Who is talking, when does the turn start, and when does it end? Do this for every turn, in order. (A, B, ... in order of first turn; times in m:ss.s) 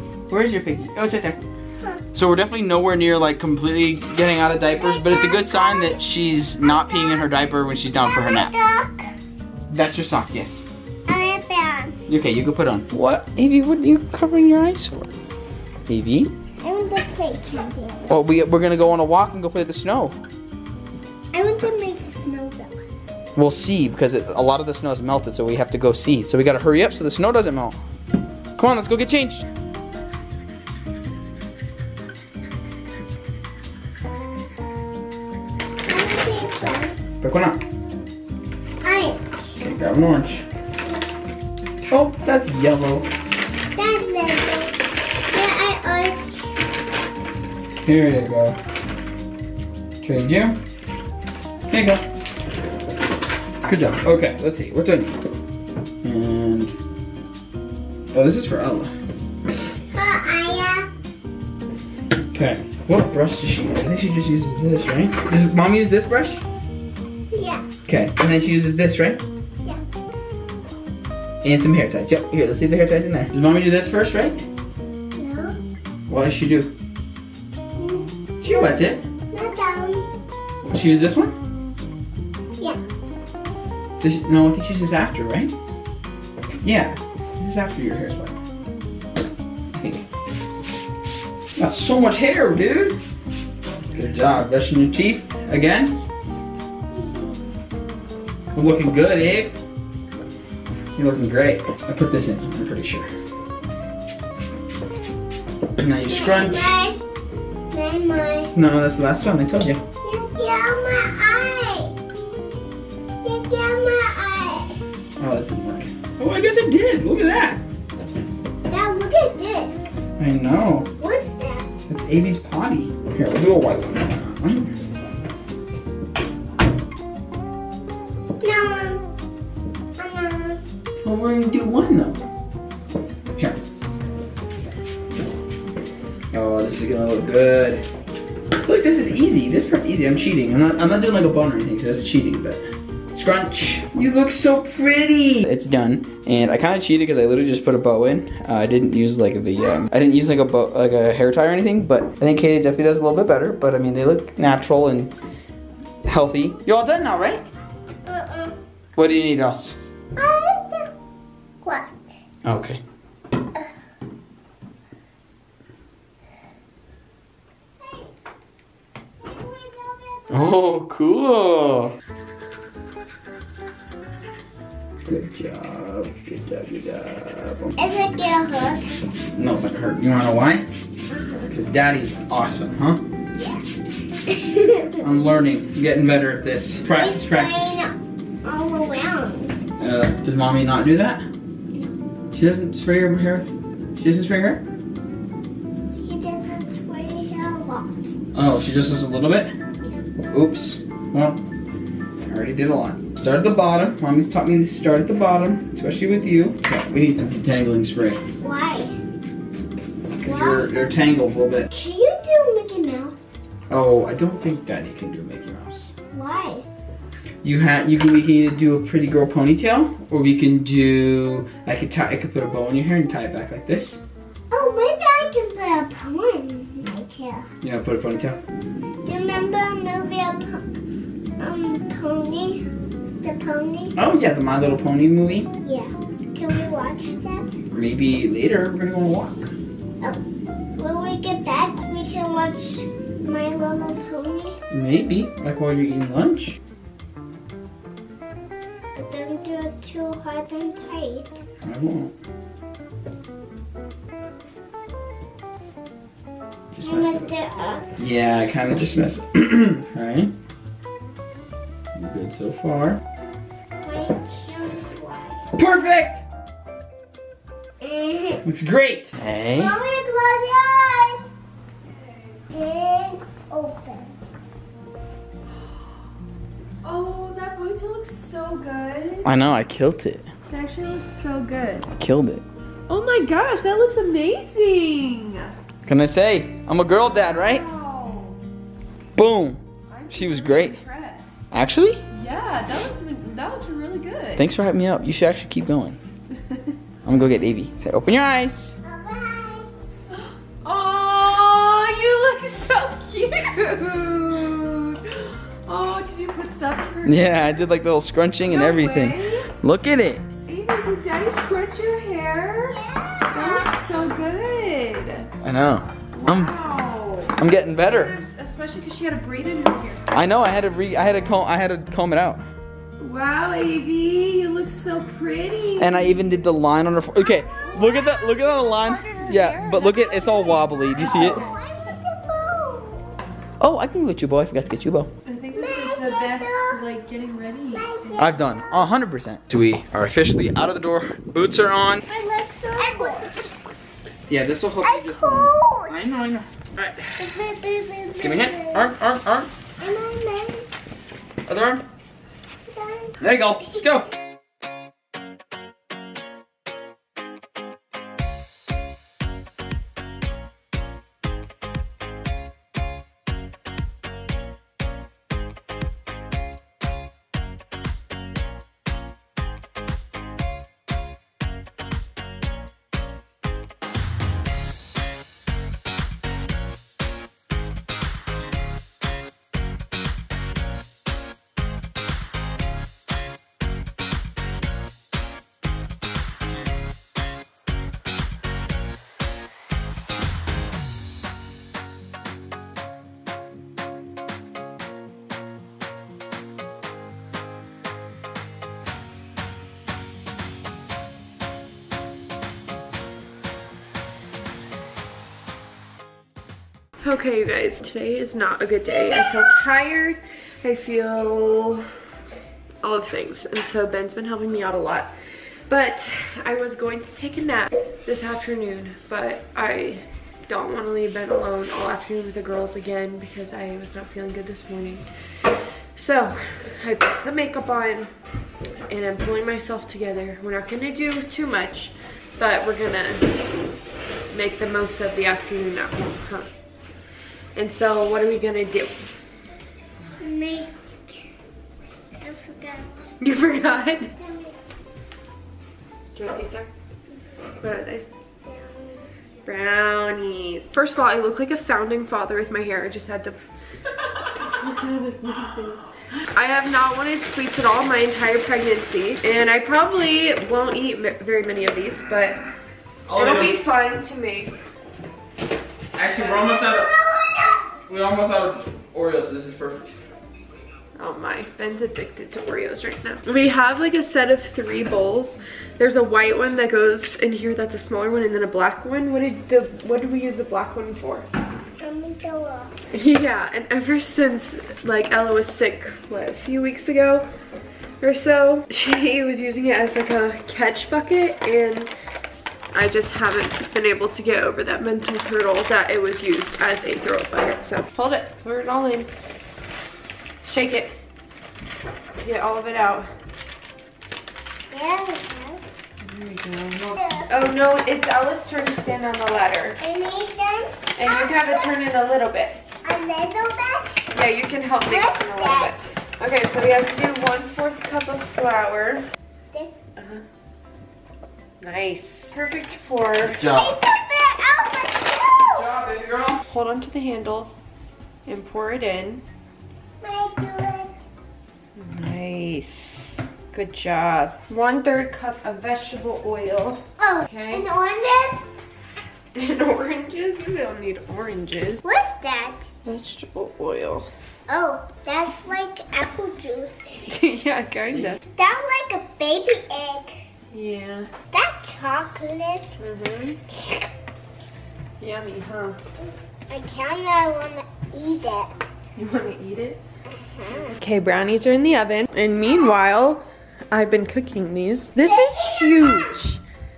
0:00.3-0:01.4 A
0:02.1-0:08.5 A
0:04.8-0:06.0 B
0:06.6-0:07.3 B
0:08.0-0:09.1 B
0:09.7-0:10.6 A
0:11.1-0:11.9 B
0:12.1-0:15.1 A
0:15.9-0:16.3 A
0:16.6-0:18.1 B
0:18.1-0:20.2 A
0:21.3-0:22.8 B
0:23.4-0:27.8 A
0:28.6-0:29.4 A
0:35.9-0:36.9 B
0:37.2-0:37.6 A
0:38.8-0:39.2 B
0:39.6-0:40.4 A
0:41.9-0:43.1 A
0:43.7-0:44.7 B
0:45.3-0:46.5 B
0:47.8-0:48.6 A
0:50.0-0:50.6 A
0:51.7-0:52.0 A
0:53.6-0:55.2 A
0:56.0-0:56.7 A
0:58.1-0:58.9 A
0:59.9-1:00.9 B
1:02.3-1:06.4 A
1:07.3-1:07.6 B
1:07.8-1:09.2 A
1:11.4-1:14.4 A
1:15.1-1:15.6 B
1:16.1-1:16.7 A
1:17.8-1:20.1 B
1:18.4-1:19.0 A
1:20.6-1:21.3 A
1:24.0-1:25.5 A
1:26.6-1:28.3 A
1:29.7-1:30.0 A
1:31.6-1:33.0 A
1:33.9-1:36.0 A
1:36.9-1:37.3 B
1:38.5-1:39.6 A
1:41.0-1:43.1 A
1:45.8-1:46.8 A
1:46.0-1:47.0 B
1:47.7-1:48.5 B
1:48.5-1:49.8 A
1:50.0-1:51.9 B
1:53.2-1:54.8 B
1:55.2-1:57.6 A
1:58.7-1:59.9 B
2:00.2-2:00.9 A
2:01.0-2:01.7 B
2:01.9-2:04.7 A
2:08.4-2:09.0 B
2:10.0-2:10.6 B
2:11.0-2:12.2 A
2:16.3-2:17.8 A
2:18.5-2:35.1 A
2:36.0-2:37.4 A
2:38.0-2:38.5 B
2:38.9-2:39.8 A
2:40.2-2:40.9 B
2:41.6-2:42.1 B
2:42.4-2:42.8 A
2:49.4-2:50.4 B
2:50.3-2:51.9 A
2:55.0-2:57.7 A
2:57.8-2:58.9 B
2:59.4-3:00.6 A
3:01.1-3:01.5 B
3:01.5-3:03.0 A
3:03.3-3:03.6 B
3:04.3-3:05.0 B
3:05.0-3:07.8 A
3:06.9-3:09.5 B
3:09.8-3:11.2 A
3:12.3-3:14.6 A
3:15.9-3:18.0 B
3:18.3-3:19.5 A
3:20.3-3:21.4 A
3:22.2-3:28.2 A
3:28.4-3:29.0 B
3:30.2-3:31.7 A
3:30.2-3:30.7 B
3:31.7-3:33.2 B
3:33.7-3:35.9 A
3:36.1-3:36.6 B
3:37.4-3:44.0 A
3:44.5-3:47.5 B
3:47.6-3:48.4 A
3:49.0-3:50.8 B
3:51.4-3:52.6 B
3:53.2-3:53.9 B
3:54.0-3:55.5 A
3:55.6-3:57.5 B
3:57.7-3:59.5 A
4:00.8-4:04.6 B
4:04.7-4:06.6 A
4:09.0-4:11.4 B
4:11.6-4:12.1 A
4:16.7-4:17.3 A
4:16.8-4:17.9 B
4:18.0-4:20.3 A
4:21.9-4:23.0 A
4:23.8-4:25.4 B
4:25.5-4:26.2 A
4:27.8-4:28.4 B
4:28.4-4:29.8 A
4:29.5-4:31.2 B
4:32.5-4:34.2 B
4:36.8-4:39.2 C
4:39.2-4:40.3 A
4:40.5-4:41.9 C
4:42.0-4:42.4 A
4:42.9-4:45.5 C
4:45.8-4:47.6 A
4:47.2-4:48.4 C
4:49.2-4:49.6 A
4:49.9-4:51.4 C
4:50.1-4:50.8 A
4:51.5-4:52.0 A
4:52.1-4:54.5 C
4:54.4-4:56.0 A
4:57.0-4:58.8 A
4:58.8-4:59.7 B
5:00.6-5:07.7 C
5:07.0-5:10.2 A
5:08.4-5:09.5 C
5:10.4-5:12.8 C
5:12.7-5:13.7 B
5:13.3-5:15.3 C
5:15.4-5:16.5 A
5:16.1-5:20.4 C
5:17.4-5:18.1 A
5:20.1-5:22.4 A
5:23.0-5:26.2 C
5:25.8-5:31.4 A
5:27.5-5:28.0 B
5:28.0-5:31.6 C
5:30.6-5:33.1 B
5:33.6-5:35.1 A
5:35.2-5:38.2 C
5:35.5-5:36.9 B
5:37.7-5:38.8 B
5:38.2-5:42.0 A
5:42.1-5:43.3 B
5:42.5-5:43.4 C
5:44.3-5:47.2 A
5:44.8-5:45.9 B
5:47.2-5:48.9 B
5:48.2-5:49.5 A
5:49.8-5:50.6 B
5:51.5-5:51.8 A
5:52.7-5:53.2 B
5:53.2-5:54.1 A
6:47.0-6:51.9 C
6:52.8-6:55.1 C
6:55.7-7:05.1 C
7:05.9-7:08.1 C
7:08.9-7:13.3 C
7:14.3-7:16.5 C
7:17.5-7:19.0 C
7:20.2-7:21.2 B
7:22.2-7:23.1 B
7:23.2-7:24.1 C
7:24.2-7:24.5 B
7:26.1-7:26.7 C
7:27.6-7:28.0 C
7:28.4-7:29.0 B
7:29.4-7:33.4 C
7:34.4-7:42.4 C
7:43.1-7:43.6 A
7:43.1-7:44.6 C
7:45.9-7:46.9 A
7:46.8-7:47.3 B
7:47.9-7:49.9 A
7:51.0-8:01.3 C
8:01.8-8:02.8 B
8:02.9-8:07.3 C
8:08.0-8:11.9 C
8:12.7-8:19.1 C
8:20.4-8:21.0 C
8:22.2-8:23.1 C
8:24.7-8:25.6 B
8:26.0-8:29.8 C
8:27.0-8:27.3 B
8:29.8-8:31.7 B
8:31.0-8:32.6 C
8:32.8-8:34.1 B
8:34.1-8:39.0 C
8:34.9-8:35.7 B
8:40.0-8:40.2 C
8:41.6-8:43.4 C
8:43.3-8:43.8 A
8:43.5-8:45.6 B
8:45.4-8:46.4 A
8:46.5-8:47.5 C
8:48.2-8:49.2 C
8:50.0-8:51.0 B
8:51.8-8:57.7 C
8:57.0-8:58.4 B
8:59.3-9:01.8 C
9:01.8-9:02.6 B
9:02.8-9:04.1 C
9:04.5-9:07.0 B
9:07.1-9:08.2 C
9:08.3-9:10.2 B
9:10.5-9:11.1 C
9:11.3-9:12.7 B
9:12.8-9:13.4 C
9:15.0-9:15.8 C
9:16.5-9:18.5 B
9:19.0-9:19.8 C
9:20.2-9:20.7 B
9:20.8-9:26.4 C